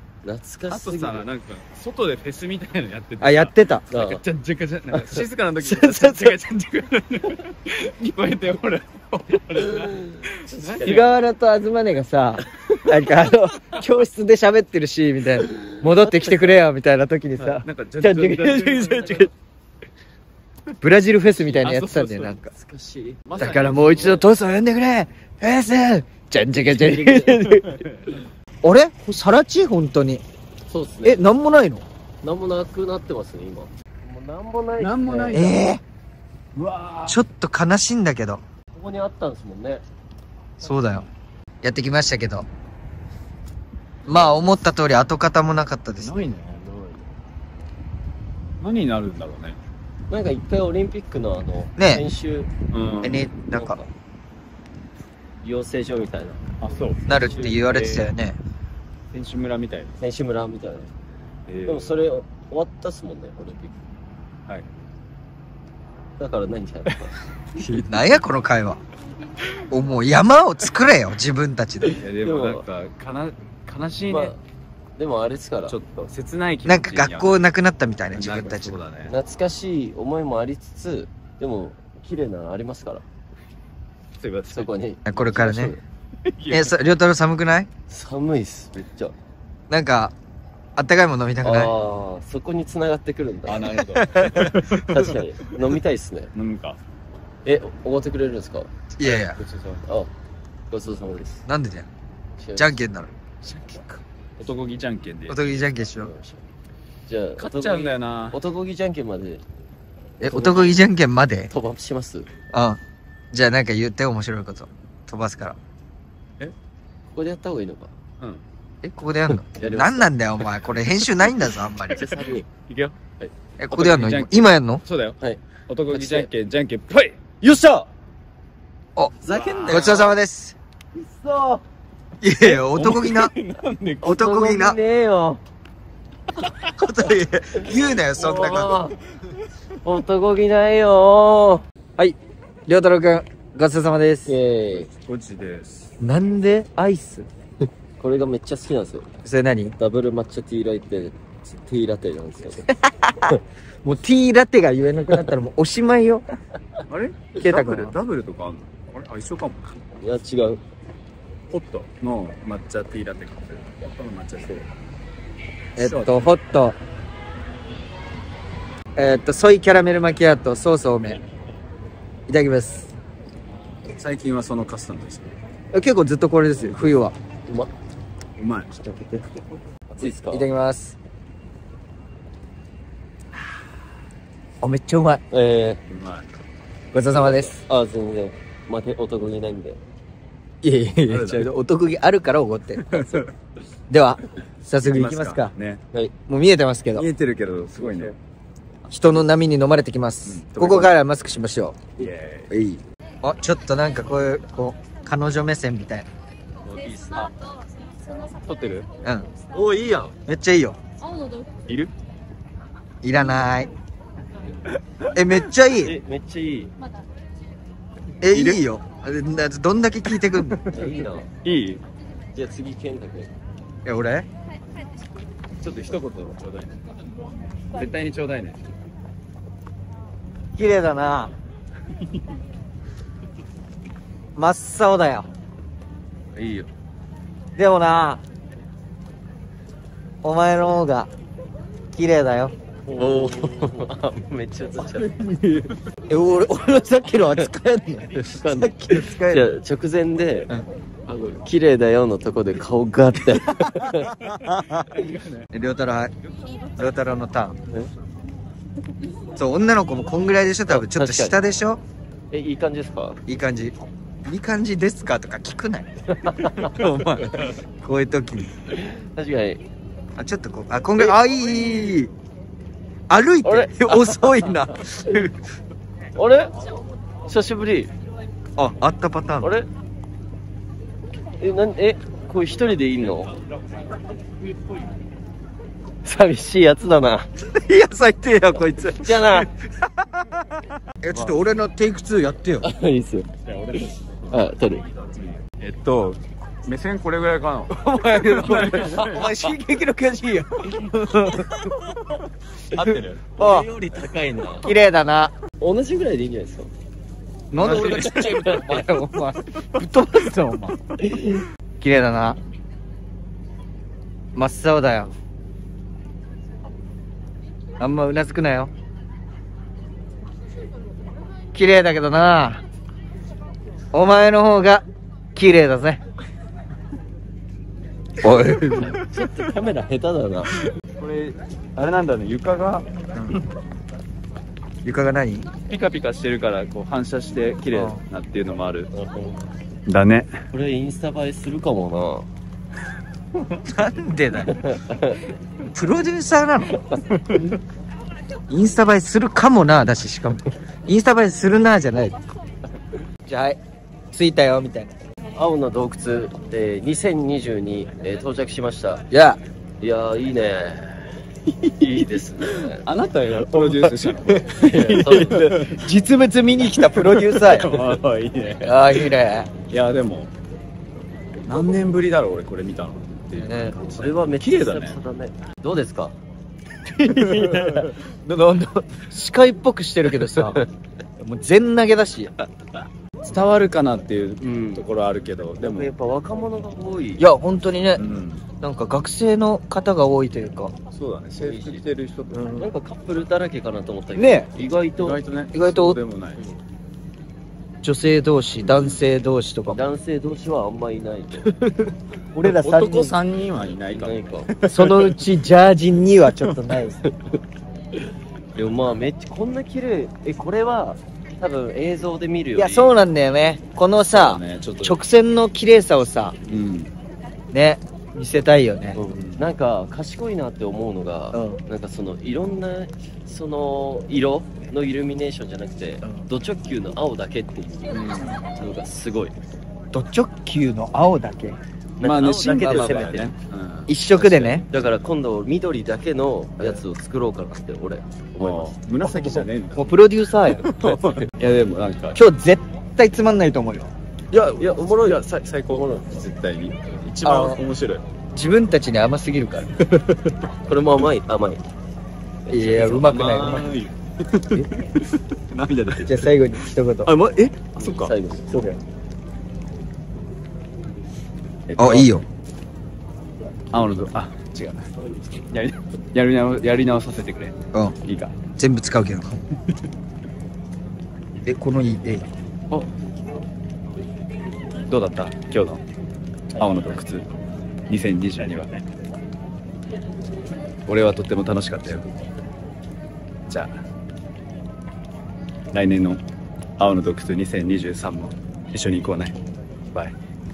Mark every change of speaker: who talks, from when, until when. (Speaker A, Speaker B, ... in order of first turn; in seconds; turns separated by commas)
Speaker A: 0.2-1.2, Speaker B: 0.7-11.1, Speaker C: 3.2-3.9, Speaker A: 3.9-4.2, Speaker A: 4.9-5.2, Speaker C: 5.6-6.4, Speaker A: 9.7-11.2, Speaker C: 10.8-19.3, Speaker A: 12.4-12.9, Speaker A: 15.8-16.6, Speaker B: 17.4-19.3, Speaker C: 20.8-22.5, Speaker B: 21.4-22.4, Speaker A: 22.5-23.2, Speaker B: 23.3-24.3, Speaker C: 23.4-27.7, Speaker A: 26.5-27.5, Speaker B: 27.5-28.2, Speaker C: 28.6-30.2, Speaker A: 30.7-31.3, Speaker C: 31.1-31.9, Speaker A: 32.2-35.6, Speaker B: 34.8-35.6, Speaker C: 35.3-35.8, Speaker B: 36.5-37.2, Speaker C: 37.1-38.4, Speaker A: 38.7-39.8, Speaker C: 40.6-41.1, Speaker C: 41.6-42.5, Speaker C: 44.1-46.2, Speaker A: 44.1-44.5, Speaker B: 46.0-46.6, Speaker A: 46.5-47.1, Speaker B: 48.6-49.6, Speaker A: 50.1-52.5, Speaker C: 51.8-52.0, Speaker B: 52.7-53.3, Speaker C: 53.0-53.8, Speaker A: 53.4-53.9, Speaker A: 55.4-56.4, Speaker B: 56.6-58.1, Speaker C: 57.1-58.4, Speaker A: 57.3-57.6, Speaker B: 59.1-60.0, Speaker A: 60.0-60.9, Speaker B: 61.5-61.9, Speaker A: 61.7-63.8, Speaker A: 66.2-67.1, Speaker B: 67.6-68.2, Speaker C: 67.6-68.8, Speaker C: 69.7-72.0, Speaker B: 72.0-74.3, Speaker A: 72.2-72.6, Speaker A: 74.1-74.4, Speaker A: 75.0-75.8, Speaker B: 75.7-77.4, Speaker C: 76.7-78.8, Speaker B: 78.1-79.1, Speaker A: 79.1-83.0, Speaker B: 84.2-84.7, Speaker A: 84.5-85.8, Speaker C: 85.1-85.8, Speaker B: 86.3-86.8, Speaker C: 86.5-87.7, Speaker A: 87.9-89.1, Speaker C: 89.7-90.1, Speaker C: 90.8-91.7, Speaker A: 91.4-93.7, Speaker B: 93.5-95.2, Speaker C: 93.9-94.5, Speaker A: 94.8-96.3, Speaker B: 96.3-96.8, Speaker A: 97.5-98.7, Speaker C: 99.0-99.4, Speaker B: 99.0-99.8, Speaker A: 99.8-100.1, Speaker A: 100.7-101.5, Speaker C: 101.5-101.9, Speaker A: 102.4-102.8, Speaker C: 102.6-103.1, Speaker A: 103.4-104.0, Speaker B: 104.4-105.7, Speaker C: 105.3-106.1, Speaker A: 105.9-106.5, Speaker A: 107.1-109.4, Speaker B: 107.4-108.4, Speaker C: 110.2-111.5, Speaker A: 110.2-110.8, Speaker A: 111.5-112.3, Speaker C: 112.5-112.8, Speaker C: 113.3-115.6, Speaker A: 117.1-117.9, Speaker C: 118.8-122.1, Speaker A: 119.5-120.1, Speaker B: 121.5-123.0, Speaker A: 121.9-123.3, Speaker C: 123.6-124.8, Speaker B: 123.7-125.2, Speaker A: 125.2-126.3, Speaker B: 125.7-127.2, Speaker A: 127.4-127.9, Speaker A: 129.2-130.1, Speaker B: 129.3-130.1, Speaker C: 129.7-130.6, Speaker A: 130.9-131.6, Speaker C: 132.2-133.3, Speaker B: 132.7-133.3, Speaker A: 133.3-135.4, Speaker C: 134.0-134.8, Speaker C: 136.8-138.8, Speaker A: 138.1-139.0, Speaker A: 139.8-141.6, Speaker C: 142.0-144.4, Speaker A: 144.3-144.9, Speaker B: 144.9-145.9, Speaker C: 146.0-147.3, Speaker A: 148.0-149.1, Speaker C: 149.2-149.8, Speaker A: 149.8-152.7, Speaker C: 152.7-156.3, Speaker B: 156.9-159.8, Speaker C: 157.4-158.0, Speaker A: 160.0-160.6, Speaker B: 161.5-164.6, Speaker B: 165.8-166.3, Speaker C: 165.8-166.8, Speaker C: 168.9-171.2, Speaker C: 172.3-172.9, Speaker B: 174.0-175.4, Speaker C: 175.7-177.2, Speaker B: 178.4-178.7, Speaker C: 178.8-179.3, Speaker A: 179.9-180.5, Speaker C: 180.0-181.0, Speaker C: 184.6-185.2, Speaker A: 185.3-185.8, Speaker B: 185.9-186.3, Speaker C: 186.9-187.6, Speaker A: 187.1-189.8, Speaker C: 190.6-193.2, Speaker B: 191.1-191.5, Speaker B: 192.9-193.3, Speaker C: 193.9-195.5, Speaker B: 194.8-195.8, Speaker C: 196.3-197.1, Speaker B: 196.9-198.2, Speaker A: 197.8-198.1, Speaker C: 198.9-201.9, Speaker B: 200.2-200.9, Speaker B: 202.0-202.5, Speaker C: 202.5-206.1, Speaker B: 206.8-207.3, Speaker A: 206.8-207.2, Speaker B: 208.2-208.9, Speaker C: 209.0-209.3, Speaker A: 209.5-210.1, Speaker C: 210.3-210.8, Speaker C: 213.0-213.7, Speaker C: 215.1-215.9, Speaker A: 215.8-216.7, Speaker C: 218.2-220.6, Speaker B: 218.3-218.6, Speaker B: 220.3-220.8, Speaker A: 220.7-221.3, Speaker B: 221.4-221.8, Speaker A: 222.3-223.3, Speaker C: 223.8-224.3, Speaker B: 225.6-226.8, Speaker B: 227.7-228.6, Speaker C: 230.6-231.3, Speaker C: 234.4-235.3, Speaker A: 236.3-236.7, Speaker C: 237.6-238.2, Speaker C: 240.2-241.1, Speaker C: 241.9-242.5, Speaker A: 242.9-245.1, Speaker B: 245.0-245.7, Speaker C: 246.1-249.5, Speaker A: 248.1-250.5, Speaker A: 251.1-254.2, Speaker B: 254.2-255.5, Speaker C: 255.5-256.1, Speaker C: 256.8-257.6, Speaker C: 259.4-261.8, Speaker A: 260.7-261.4, Speaker A: 262.3-263.2, Speaker C: 263.3-265.9, Speaker A: 266.1-266.8, Speaker C: 266.5-268.5, Speaker A: 268.7-269.6, Speaker C: 270.2-272.1, Speaker C: 273.1-275.3, Speaker A: 273.4-275.2, Speaker A: 276.1-276.6, Speaker A: 277.2-277.9, Speaker C: 278.6-279.5, Speaker A: 279.4-279.7, Speaker A: 281.4-283.3, Speaker A: 286.0-287.3, Speaker C: 287.4-290.3, Speaker A: 288.8-289.5, Speaker C: 291.0-292.7, Speaker A: 292.6-294.9, Speaker B: 293.4-299.3, Speaker C: 297.8-301.7, Speaker A: 300.7-301.6, Speaker B: 302.7-303.3, Speaker C: 302.8-303.7, Speaker A: 303.4-304.7, Speaker C: 304.6-305.3, Speaker A: 305.6-306.7, Speaker C: 307.5-310.8, Speaker B: 307.6-308.5, Speaker A: 307.6-308.9, Speaker A: 311.0-311.5, Speaker C: 311.8-312.4, Speaker C: 314.4-315.1, Speaker C: 317.8-318.7, Speaker C: 321.5-322.6, Speaker C: 323.9-324.8, Speaker C: 325.4-326.0, Speaker C: 328.2-329.0, Speaker A: 328.8-330.5, Speaker B: 331.0-332.9, Speaker C: 334.8-335.5, Speaker B: 335.7-338.9, Speaker C: 337.7-338.0, Speaker A: 338.9-339.5, Speaker B: 339.9-340.3, Speaker A: 340.5-342.3, Speaker C: 343.7-344.6, Speaker A: 344.5-345.2, Speaker C: 345.7-346.8, Speaker C: 348.5-352.2, Speaker C: 353.3-353.6, Speaker C: 354.1-354.9, Speaker A: 355.4-359.1, Speaker C: 359.1-359.4, Speaker A: 359.8-361.0, Speaker A: 361.8-362.9, Speaker B: 362.5-365.8, Speaker C: 363.6-367.7, Speaker A: 364.5-365.5, Speaker B: 366.9-369.1, Speaker C: 368.6-369.5, Speaker B: 369.7-370.3, Speaker B: 371.5-375.0, Speaker C: 373.4-374.0, Speaker A: 374.0-376.1, Speaker C: 376.9-380.6, Speaker B: 377.1-377.9, Speaker C: 381.2-382.3, Speaker B: 383.2-385.9, Speaker A: 384.4-384.9, Speaker A: 385.6-387.2, Speaker C: 387.2-388.0, Speaker B: 388.0-388.5, Speaker C: 388.6-390.7, Speaker B: 390.9-392.6, Speaker A: 391.4-391.9, Speaker C: 392.3-392.7, Speaker A: 392.6-395.2, Speaker C: 394.2-394.5, Speaker B: 395.0-396.4, Speaker C: 395.5-396.0, Speaker C: 397.8-399.8, Speaker B: 398.6-399.0, Speaker A: 399.7-401.5, Speaker C: 401.4-403.1, Speaker B: 402.4-405.2, Speaker A: 403.9-404.5, Speaker C: 404.7-407.0, Speaker A: 407.0-407.3, Speaker A: 408.6-413.0, Speaker C: 412.6-416.4, Speaker B: 414.1-415.0, Speaker B: 416.4-416.9, Speaker C: 417.5-419.0, Speaker A: 418.9-429.4, Speaker B: 419.1-419.4, Speaker C: 421.3-421.6, Speaker B: 427.9-428.4, Speaker C: 429.9-431.6, Speaker A: 432.0-433.3, Speaker B: 432.0-434.6, Speaker C: 432.6-433.0, Speaker C: 433.9-434.7, Speaker A: 434.6-438.7, Speaker B: 438.4-442.2, Speaker C: 439.0-440.6, Speaker A: 440.8-441.3, Speaker C: 442.1-443.9, Speaker B: 444.3-448.0, Speaker A: 444.6-446.1, Speaker C: 447.2-447.6, Speaker C: 448.3-449.7, Speaker B: 449.9-450.3, Speaker A: 450.7-451.7, Speaker C: 452.5-453.7, Speaker A: 452.5-453.7, Speaker B: 452.8-456.4, Speaker C: 456.1-457.1, Speaker B: 457.1-458.1, Speaker A: 457.8-458.7, Speaker B: 461.7-462.1, Speaker C: 461.8-462.2, Speaker B: 463.7-464.9, Speaker B: 465.5-468.4, Speaker C: 468.6-469.4, Speaker C: 471.4-472.3, Speaker B: 474.9-475.8, Speaker B: 476.5-477.3, Speaker B: 477.9-478.8, Speaker B: 480.9-482.2, Speaker B: 483.5-483.7, Speaker B: 485.7-486.2, Speaker B: 486.8-489.4